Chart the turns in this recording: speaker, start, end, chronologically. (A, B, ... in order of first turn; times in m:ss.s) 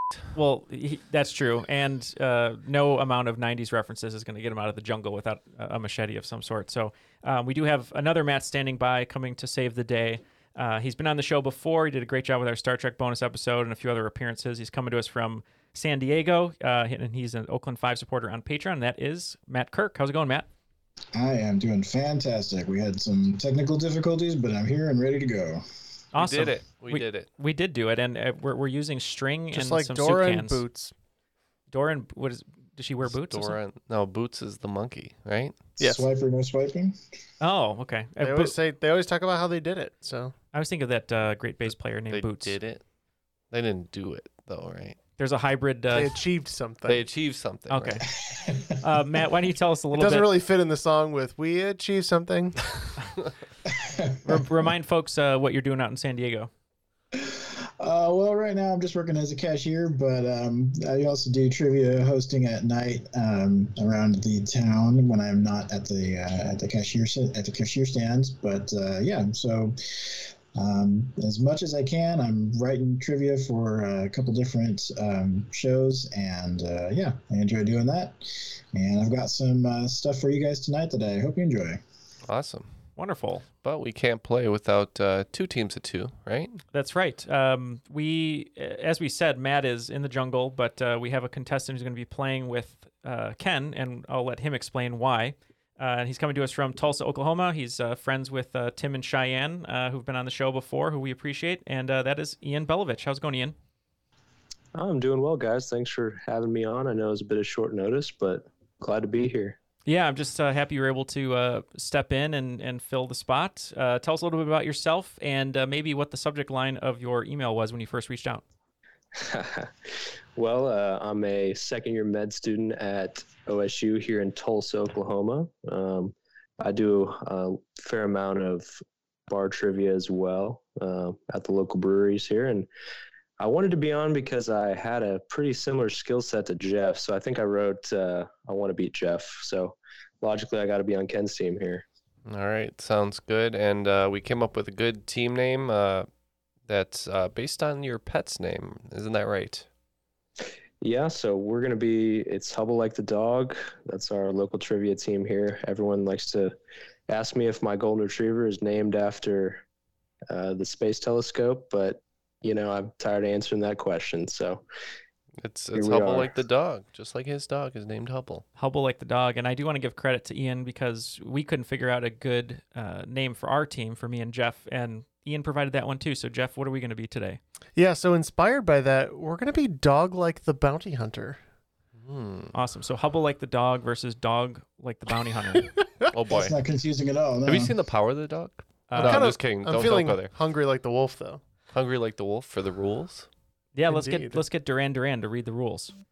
0:00.3-0:20.5 A
0:21.1-0:25.6 B
0:26.2-0:30.6 A
0:26.2-0:27.3 C
0:29.5-0:30.9 D
0:31.7-0:33.6 A
0:33.2-0:35.6 C
0:35.8-0:37.0 B
0:37.4-0:38.6 A
0:38.2-0:40.3 D
0:40.5-0:42.6 A
0:42.1-0:42.8 C
0:43.5-0:45.0 C
0:45.2-0:46.2 A
0:45.9-0:47.0 D
0:46.9-0:48.0 C
0:47.7-0:48.1 A
0:48.2-0:48.8 B
0:48.8-0:50.4 A
0:49.9-0:52.7 D
0:53.7-0:54.4 B
0:54.2-0:56.5 A
0:57.1-1:21.8 B
1:22.3-1:22.7 C
1:23.0-1:23.4 A
1:23.6-1:26.6 C
1:26.7-1:43.6 A
1:44.8-1:49.6 E
1:49.9-1:58.4 A
1:59.2-2:12.7 E
2:13.4-2:21.8 E
2:22.3-2:26.1 C
2:26.7-2:29.7 C
2:30.8-2:36.5 E
2:37.1-2:39.6 E
2:40.3-2:44.6 E
2:45.4-2:48.4 C
2:45.8-2:46.3 E
2:48.6-2:57.4 A
2:57.8-3:01.4 D
3:02.0-3:02.5 C
3:02.5-3:05.7 A
3:06.1-3:06.5 C
3:06.3-3:07.7 B
3:07.5-3:10.3 C
3:08.9-3:09.3 A
3:09.0-3:11.4 D
3:11.7-3:13.3 C
3:13.8-3:15.9 A
3:13.9-3:14.4 D